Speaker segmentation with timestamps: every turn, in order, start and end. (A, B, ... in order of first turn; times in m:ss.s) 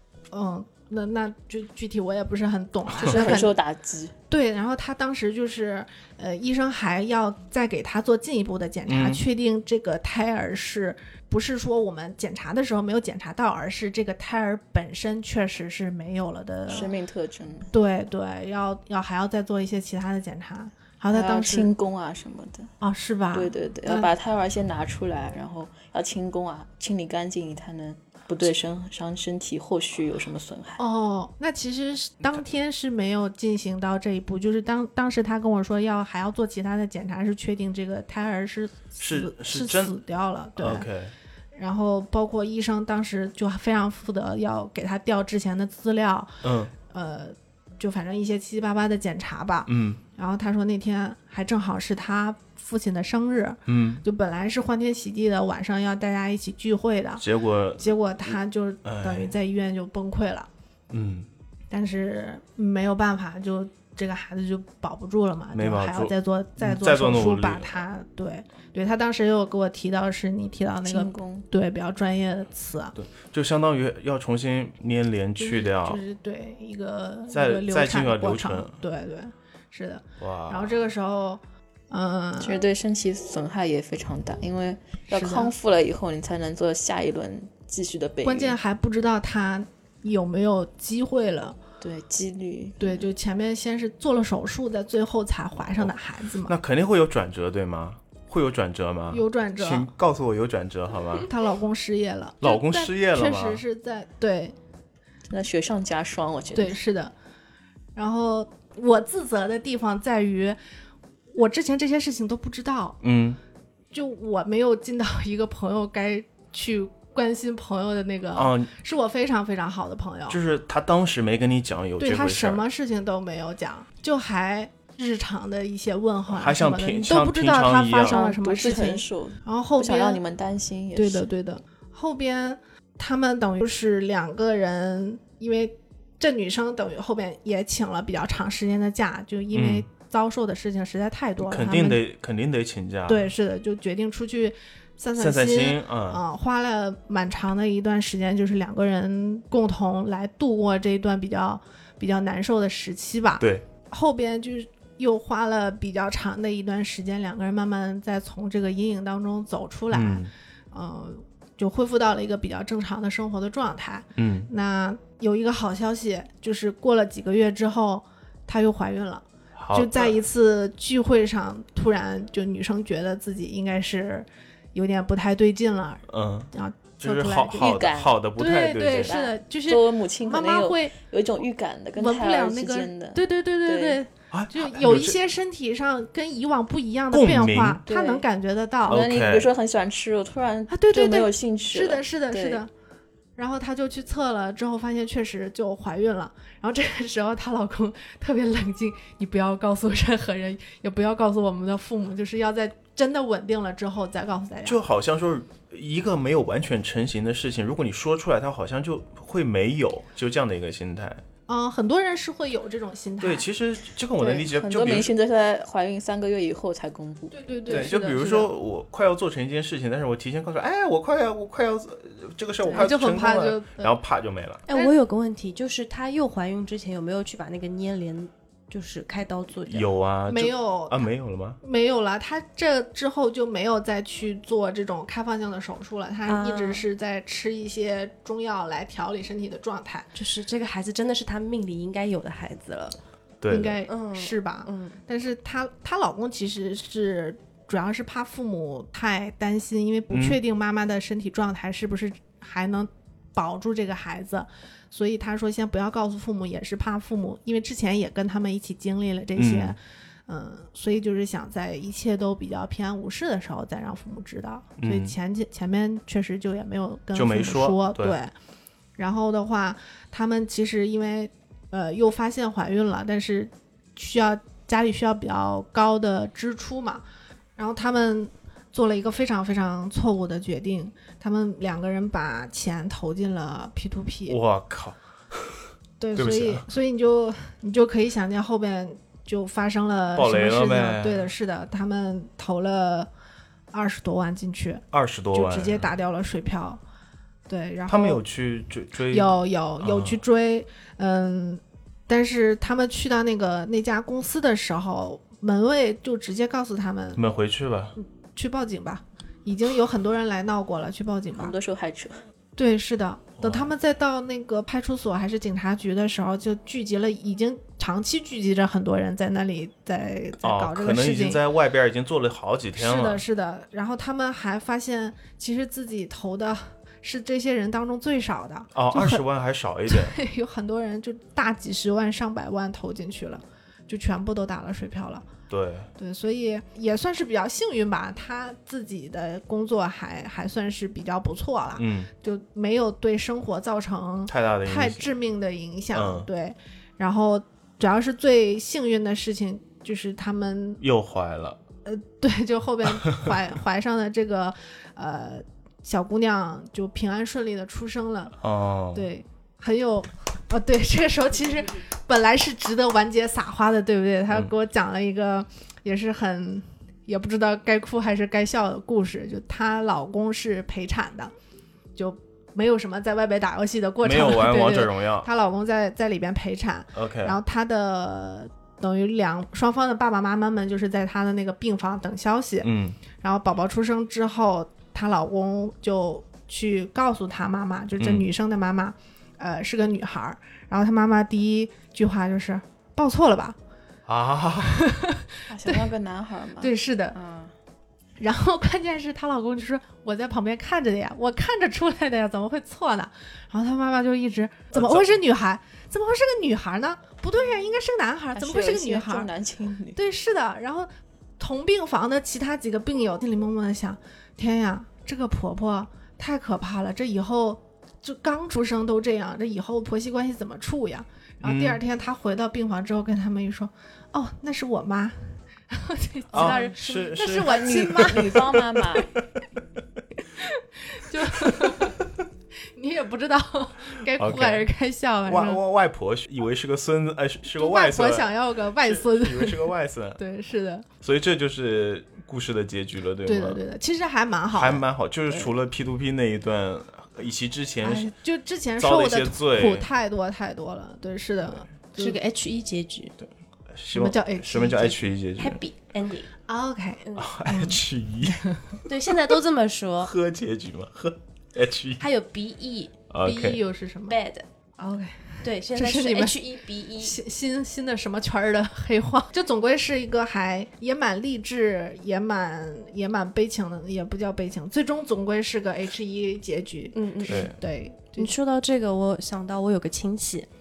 0:00.3-0:03.6 A
0:02.9-0:03.4 B
0:03.0-0:04.2 C
0:04.3-0:16.9 A
0:08.9-0:09.2 B
0:16.7-0:17.7 C
0:17.7-0:21.7 A
0:21.1-0:22.7 C
0:22.8-0:24.1 A
0:23.3-0:30.8 C
0:30.8-0:40.9 A
0:39.0-0:40.0 B
0:40.6-0:41.2 B
0:41.6-0:57.2 A
0:46.4-0:46.7 B
0:49.7-0:50.0 B
0:53.7-0:54.0 B
0:57.2-0:59.3 B
0:57.8-1:00.5 A
1:00.9-1:01.3 B
1:01.7-1:13.0 A
1:05.5-1:07.8 B
1:10.8-1:11.5 C
1:13.0-1:16.0 B
1:15.4-1:22.6 A
1:17.3-1:18.8 B
1:20.2-1:20.9 B
1:22.4-1:28.6 C
1:25.1-1:25.5 A
1:28.2-1:31.6 A
1:31.8-1:33.1 C
1:32.8-1:36.6 A
1:36.4-1:41.3 B
1:39.1-1:39.9 A
1:41.2-1:44.6 A
1:42.4-1:43.6 B
1:45.3-1:46.8 C
1:46.6-1:47.1 A
1:48.0-1:50.6 A
1:51.3-1:53.0 A
1:53.0-1:53.4 B
1:53.9-2:00.4 A
1:58.3-1:58.7 B
2:00.3-2:02.6 B
2:02.0-2:10.2 A
2:06.3-2:08.2 B
2:08.0-2:11.3 C
2:11.0-2:22.0 A
2:19.5-2:19.9 B
2:21.4-2:23.3 B
2:23.1-2:57.8 A
2:25.2-2:26.2 B
2:33.4-2:33.6 B
2:39.9-2:40.3 B
2:44.2-2:44.5 B
2:49.6-2:50.2 B
2:56.1-2:59.2 B
2:57.6-2:58.2 C
2:58.4-3:00.9 A
2:59.0-3:04.0 C
3:02.0-3:09.0 A
3:04.3-3:05.2 B
3:07.1-3:07.8 B
3:07.8-3:08.2 C
3:08.9-3:12.6 C
3:08.9-3:09.5 B
3:10.7-3:12.7 A
3:13.4-3:24.8 A
3:24.6-3:31.2 B
3:31.5-3:33.5 A
3:33.2-3:35.1 B
3:34.2-3:37.4 C
3:37.3-3:38.5 A
3:37.7-3:44.6 B
3:42.7-3:44.0 A
3:44.7-3:49.9 D
3:49.7-3:51.6 B
3:50.3-3:51.1 A
3:51.6-4:00.1 A
3:56.3-3:56.9 D
4:00.2-4:03.0 D
4:03.4-4:03.8 B
4:03.5-4:28.3 A
4:03.9-4:05.0 D
4:10.1-4:10.4 B
4:19.4-4:19.8 B
4:24.8-4:25.2 B
4:27.1-4:28.2 B
4:29.0-4:37.0 A
4:37.6-4:44.4 A
4:44.3-4:46.7 B
4:46.0-4:53.1 A
4:50.2-4:51.3 B
4:53.7-4:56.8 A
4:54.9-4:55.9 B
4:57.5-4:58.2 A
4:57.9-5:00.2 B
4:59.1-5:07.2 A
5:07.2-5:08.0 B
5:08.0-5:11.6 A
5:11.4-5:12.2 C
5:12.6-5:21.4 A
5:13.4-5:13.7 B
5:20.4-5:23.2 B
5:22.8-5:29.2 A
5:28.8-5:30.2 B
5:29.9-5:35.3 A
5:35.5-5:35.9 B
5:36.0-5:50.8 A
5:41.8-5:42.1 B
5:44.3-5:45.1 B
5:45.9-5:46.3 B
5:50.8-5:51.6 B
5:51.8-5:58.4 A
5:58.4-5:59.1 B
5:58.9-6:11.3 A
6:12.0-6:33.6 A
6:14.0-6:15.3 B
6:16.9-6:17.4 B
6:22.6-6:23.0 B
6:28.0-6:28.3 B
6:34.1-6:34.8 B
6:34.6-6:35.9 A
6:35.5-6:37.5 C
6:36.6-6:37.2 A
6:38.2-6:49.3 A
6:44.7-6:45.2 B
6:48.3-6:50.0 C
6:50.0-7:08.8 A
7:01.4-7:01.8 B
7:06.3-7:08.4 B
7:06.3-7:06.7 D
7:07.3-7:09.1 C
7:09.2-7:09.6 B
7:10.4-7:12.1 A
7:11.4-7:11.8 B
7:12.8-7:15.6 A
7:14.2-7:14.7 B
7:15.2-7:20.2 B
7:17.5-7:20.9 A
7:21.0-7:23.6 B
7:23.3-7:25.5 A
7:24.5-7:28.1 B
7:27.8-7:32.2 A
7:28.8-7:29.9 B
7:32.0-7:33.2 D
7:33.2-7:35.6 B
7:33.9-7:35.0 A
7:35.4-7:36.3 D
7:36.5-7:37.8 A
7:37.0-7:37.3 D
7:37.2-7:38.6 B
7:38.9-7:40.1 D
7:40.0-7:42.1 B
7:42.0-7:43.0 D
7:43.1-7:43.6 B
7:43.2-7:44.2 A
7:44.1-7:44.4 D
7:44.8-7:46.4 A
7:45.4-7:47.2 D
7:47.0-7:58.3 A
7:56.9-7:57.5 D
7:57.3-7:57.6 B
7:58.2-8:00.5 D